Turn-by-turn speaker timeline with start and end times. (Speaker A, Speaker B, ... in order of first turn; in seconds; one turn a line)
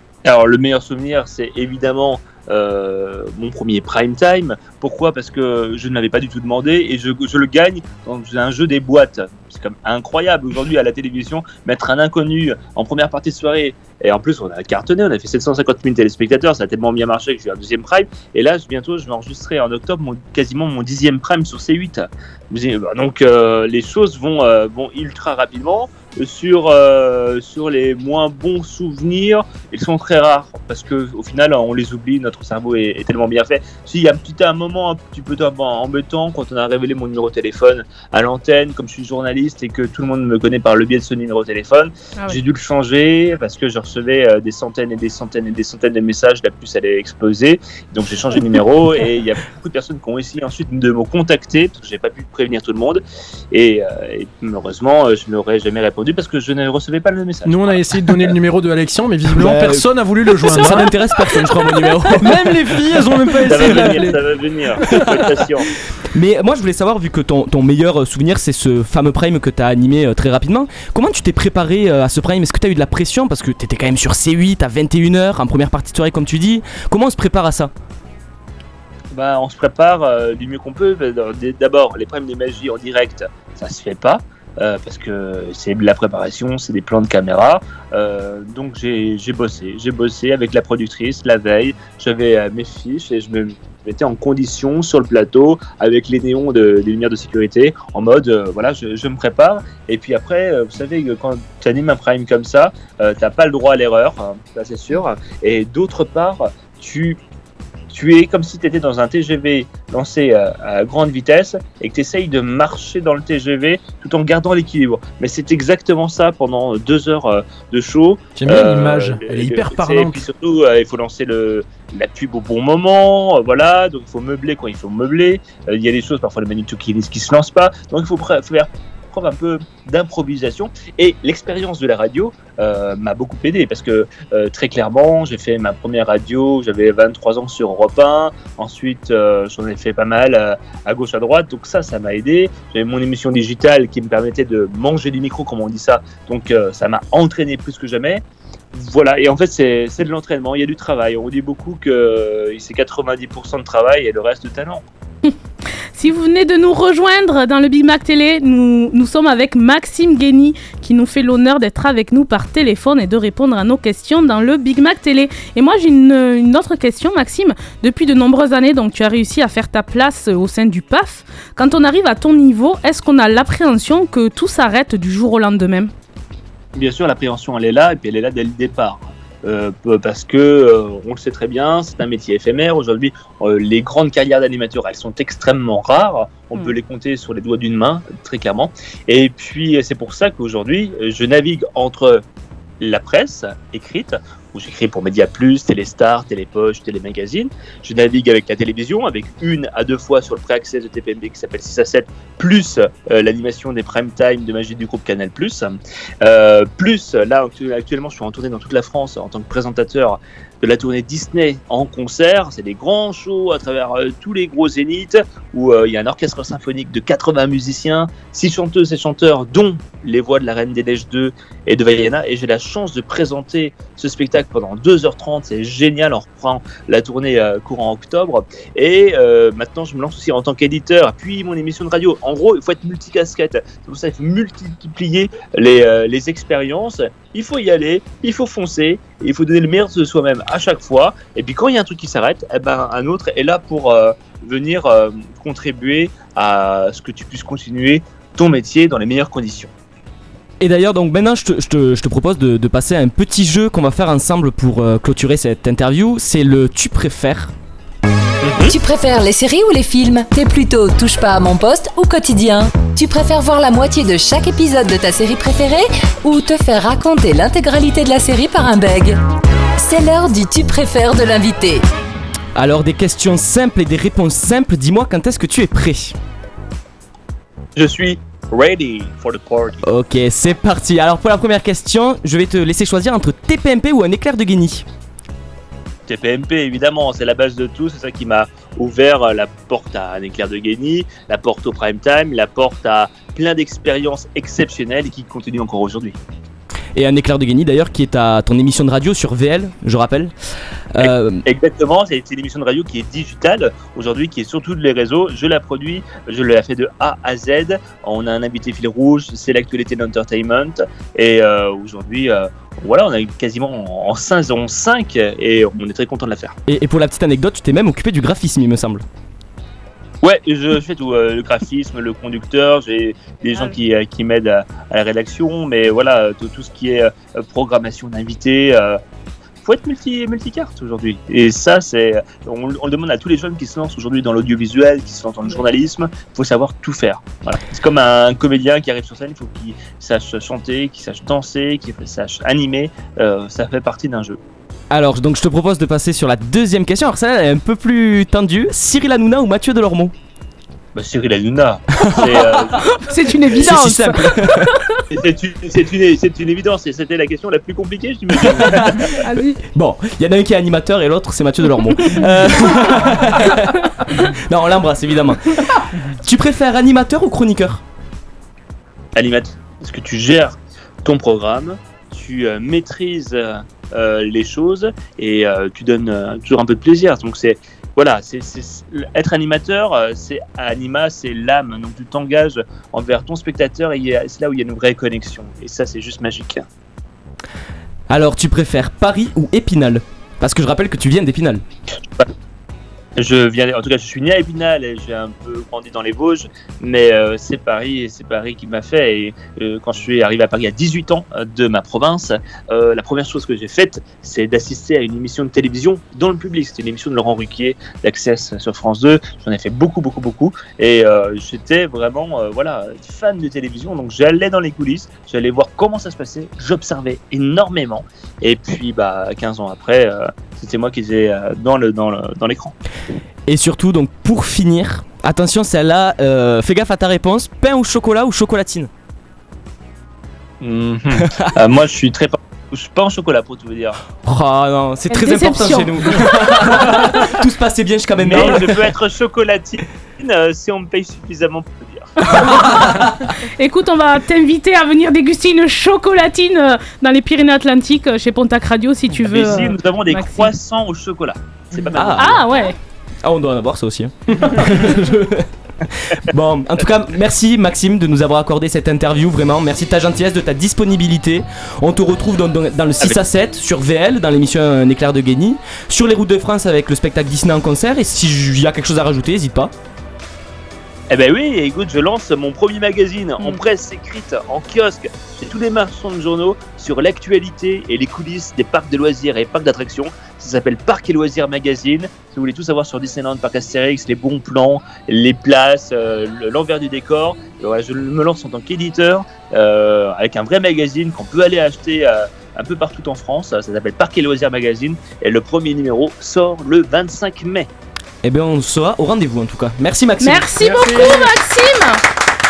Speaker A: 0.2-57.7
Speaker B: 57.5-61.0
Speaker C: 59.3-62.5
Speaker B: 62.2-64.2
Speaker C: 63.5-64.1
Speaker A: 63.5-65.7
Speaker C: 64.8-65.3
Speaker C: 66.2-77.7
Speaker A: 79.1-107.2
Speaker A: 107.9-154.8
Speaker B: 118.3-120.2
Speaker D: 155.9-175.9
Speaker A: 176.8-192.2
Speaker A: 192.8-249.7
Speaker C: 250.6-257.5
Speaker E: 258.6-269.2
Speaker E: 269.8-271.8
Speaker C: 272.6-276.2
Speaker A: 277.8-279.8
Speaker C: 279.8-284.9
Speaker A: 286.1-296.2
Speaker C: 296.9-300.3
Speaker C: 300.9-301.4
Speaker A: 301.0-316.6
Speaker C: 316.7-319.0
Speaker A: 320.2-329.0
Speaker A: 329.6-344.4
Speaker C: 344.9-350.1
Speaker A: 350.9-352.9
Speaker C: 352.0-352.4
Speaker D: 352.9-354.8
Speaker C: 353.5-354.7
Speaker A: 355.1-359.1
Speaker C: 358.6-358.9
Speaker D: 359.1-359.6
Speaker C: 359.7-365.6
Speaker D: 362.1-363.5
Speaker C: 366.2-367.8
Speaker A: 369.1-386.6
Speaker C: 388.1-391.6
Speaker A: 393.2-422.7
Speaker C: 423.5-428.9
Speaker A: 430.6-434.0
Speaker C: 434.2-438.9
Speaker D: 435.1-437.3
Speaker A: 438.2-442.2
Speaker D: 442.2-443.0
Speaker C: 442.4-443.1
Speaker D: 443.6-450.5
Speaker A: 449.1-452.4
Speaker C: 451.9-452.4
Speaker D: 452.2-452.8
Speaker C: 453.2-455.5
Speaker B: 454.3-454.6
Speaker C: 456.3-469.7
Speaker A: 471.1-497.7
Speaker C: 498.2-501.1
Speaker D: 500.2-502.0